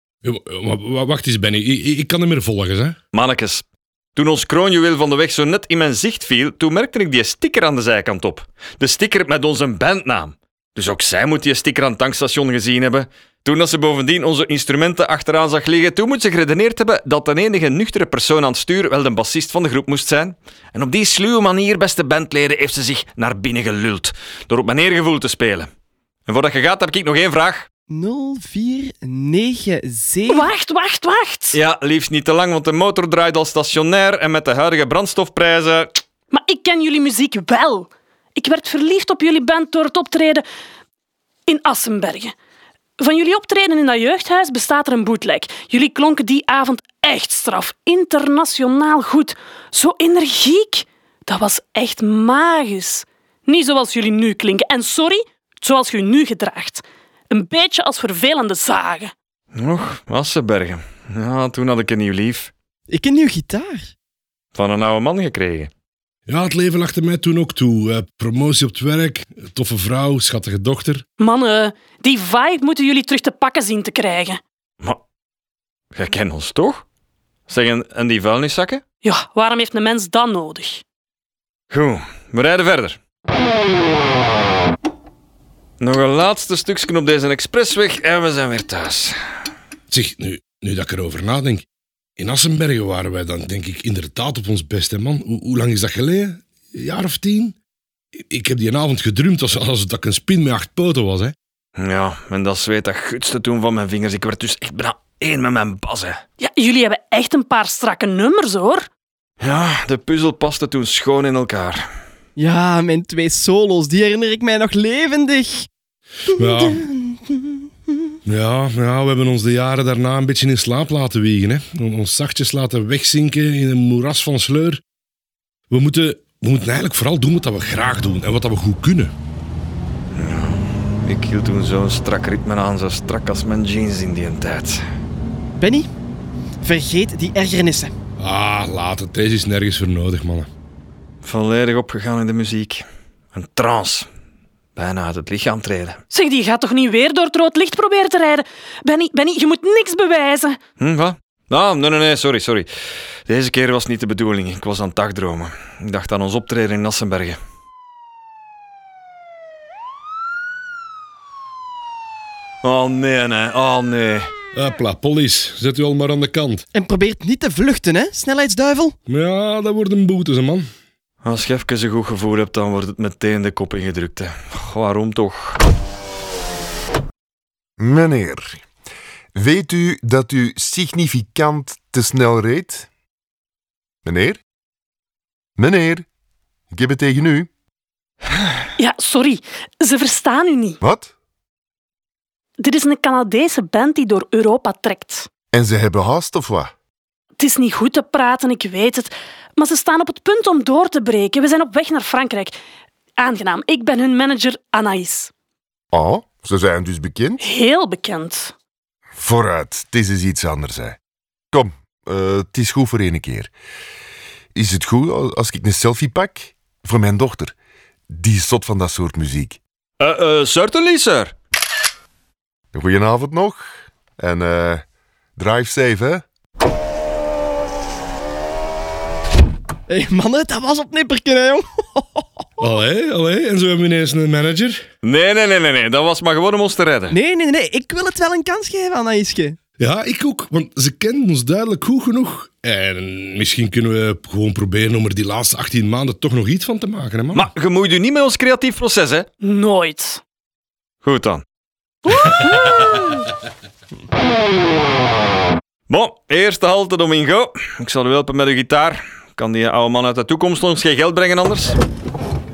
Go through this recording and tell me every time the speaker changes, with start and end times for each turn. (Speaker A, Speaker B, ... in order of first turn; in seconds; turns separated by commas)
Speaker A: 0.2-3.0, Speaker B: 3.1-25.7, Speaker B: 26.3-27.7, Speaker C: 27.9-30.5, Speaker D: 30.3-31.6, Speaker B: 31.5-36.0, Speaker D: 36.3-40.4, Speaker D: 41.5-42.3, Speaker D: 43.0-59.1, Speaker B: 59.5-62.5, Speaker C: 62.9-63.9, Speaker B: 64.5-65.7, Speaker A: 66.3-71.0, Speaker D: 71.2-74.4, Speaker B: 75.9-76.8, Speaker B: 77.5-78.8, Speaker D: 79.0-80.8, Speaker B: 81.7-83.0, Speaker B: 85.8-89.2, Speaker A: 89.9-91.6, Speaker A: 92.2-97.5, Speaker A: 98.1-101.3, Speaker B: 101.8-106.2, Speaker D: 106.4-108.9, Speaker B: 109.4-111.9, Speaker C: 112.4-115.7, Speaker C: 116.3-118.2, Speaker A: 116.3-116.8, Speaker A: 118.2-124.8, Speaker A: 125.7-129.1, Speaker B: 130.1-134.8, Speaker C: 135.6-135.9, Speaker C: 136.6-137.9, Speaker A: 138.2-140.5, Speaker B: 141.2-144.1, Speaker B: 144.8-146.0, Speaker D: 146.1-150.6, Speaker B: 150.8-152.7, Speaker B: 153.3-157.4, Speaker B: 162.6-164.3, Speaker A: 164.5-166.6, Speaker C: 166.7-168.9, Speaker A: 169.1-170.7, Speaker B: 171.2-175.6, Speaker E: 177.8-178.6, Speaker E: 179.3-182.9, Speaker E: 184.1-184.4, Speaker E: 185.6-186.1, Speaker E: 186.7-187.5, Speaker D: 188.8-190.8, Speaker E: 190.8-191.1, Speaker D: 192.6-195.3, Speaker E: 195.5-196.7, Speaker D: 197.4-202.6, Speaker D: 203.2-205.3, Speaker E: 205.9-207.4, Speaker D: 207.4-208.5, Speaker E: 209.2-211.0, Speaker E: 211.5-213.5, Speaker E: 214.6-217.6, Speaker E: 218.1-219.6, Speaker B: 220.0-221.3, Speaker E: 222.7-223.7, Speaker E: 224.2-224.8, Speaker E: 225.4-226.2, Speaker C: 229.9-232.4, Speaker A: 232.6-234.8, Speaker B: 235.0-237.2, Speaker C: 237.1-239.6, Speaker A: 239.8-247.5, Speaker B: 247.3-249.3, Speaker D: 249.4-250.2, Speaker B: 251.0-251.4, Speaker D: 252.1-253.2, Speaker B: 255.9-261.8